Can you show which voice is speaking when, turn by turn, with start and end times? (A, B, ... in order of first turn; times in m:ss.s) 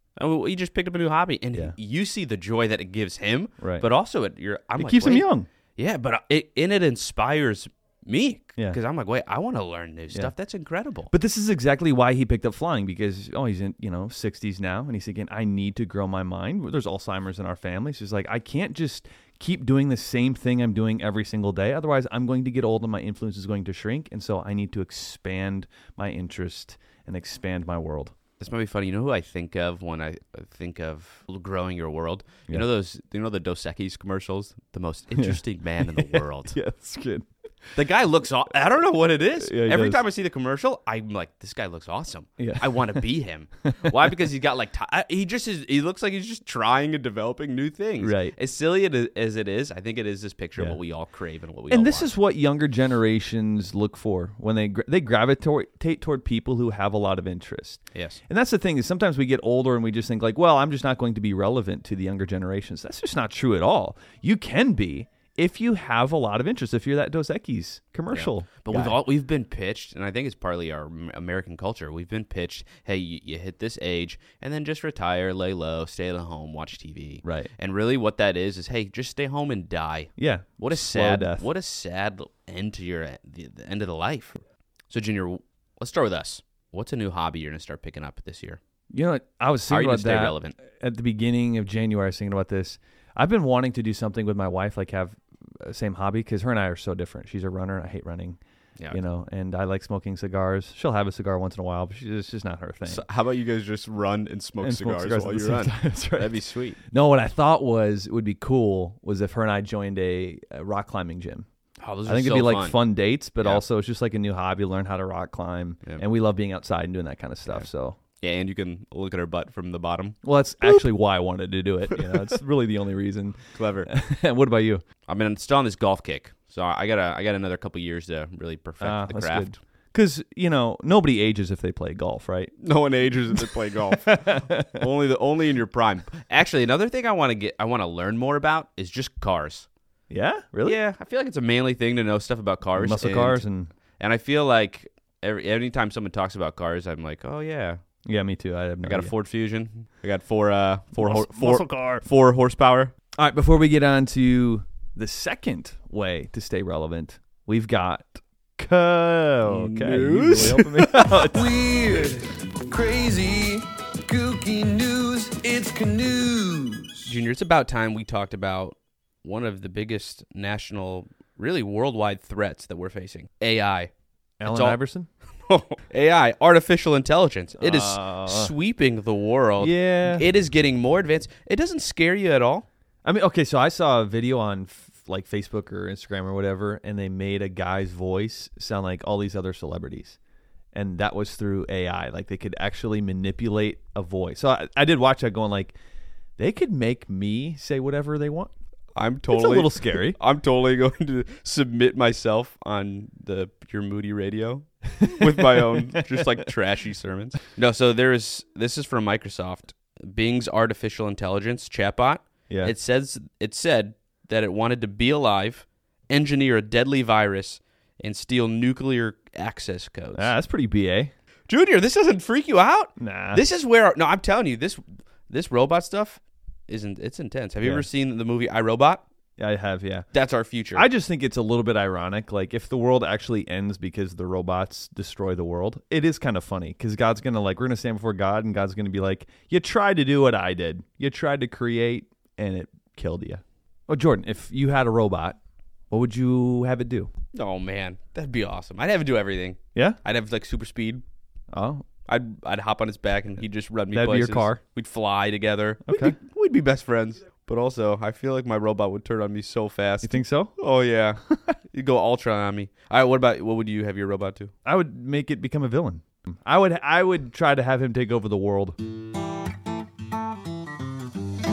0:00.2-0:11.1 A
0:03.6-0:03.8 B
0:04.8-0:05.5 B
0:11.1-0:28.1 B
0:28.4-0:36.6 A
0:35.1-0:37.2 B
0:37.7-0:52.1 A
0:39.4-0:40.0 B
0:42.4-0:43.0 B
0:43.6-0:43.9 B
0:48.0-0:48.4 B
0:51.7-1:09.0 B
0:57.9-0:58.2 A
1:08.1-1:28.6 A
1:17.2-1:17.5 B
1:20.2-1:21.4 B
1:28.9-1:38.4 B
1:29.7-1:30.6 A
1:38.9-1:43.0 B
1:42.8-1:46.8 A
1:44.6-1:51.4 B
1:51.8-1:52.8 A
1:52.0-1:58.0 B
1:58.2-2:00.8 A
2:00.2-2:04.8 B
2:01.9-2:02.4 A
2:03.5-2:03.9 A
2:05.1-2:09.6 A
2:08.8-2:12.5 B
2:12.6-2:19.7 A
2:14.0-2:14.8 B
2:20.1-2:20.8 B
2:20.6-2:23.4 A
2:22.7-2:23.7 B
2:24.0-2:27.8 A
2:28.0-2:29.1 B
2:28.8-2:32.9 A
2:31.0-2:32.0 B
2:33.2-2:41.4 B
2:39.4-2:41.3 A
2:41.3-2:47.1 C
2:47.0-2:53.9 A
2:54.4-2:55.1 B
2:54.4-2:54.8 A
2:55.4-3:02.7 A
2:57.6-2:58.5 B
2:59.6-3:00.2 B
3:03.0-3:10.2 B
3:10.7-3:15.8 B
3:16.4-3:18.5 B
3:18.9-3:40.3 A
3:19.3-3:20.2 B
3:25.0-3:26.0 B
3:40.1-3:41.1 B
3:41.5-3:49.0 A
3:43.0-3:43.4 B
3:49.4-3:50.1 B
3:50.1-3:50.8 A
3:50.7-4:05.4 B
4:05.9-4:07.1 B
4:07.3-4:11.0 A
4:11.5-4:11.8 B
4:12.0-4:24.5 A
4:13.9-4:14.6 B
4:15.8-4:16.2 B
4:20.0-4:20.5 B
4:24.6-4:28.7 B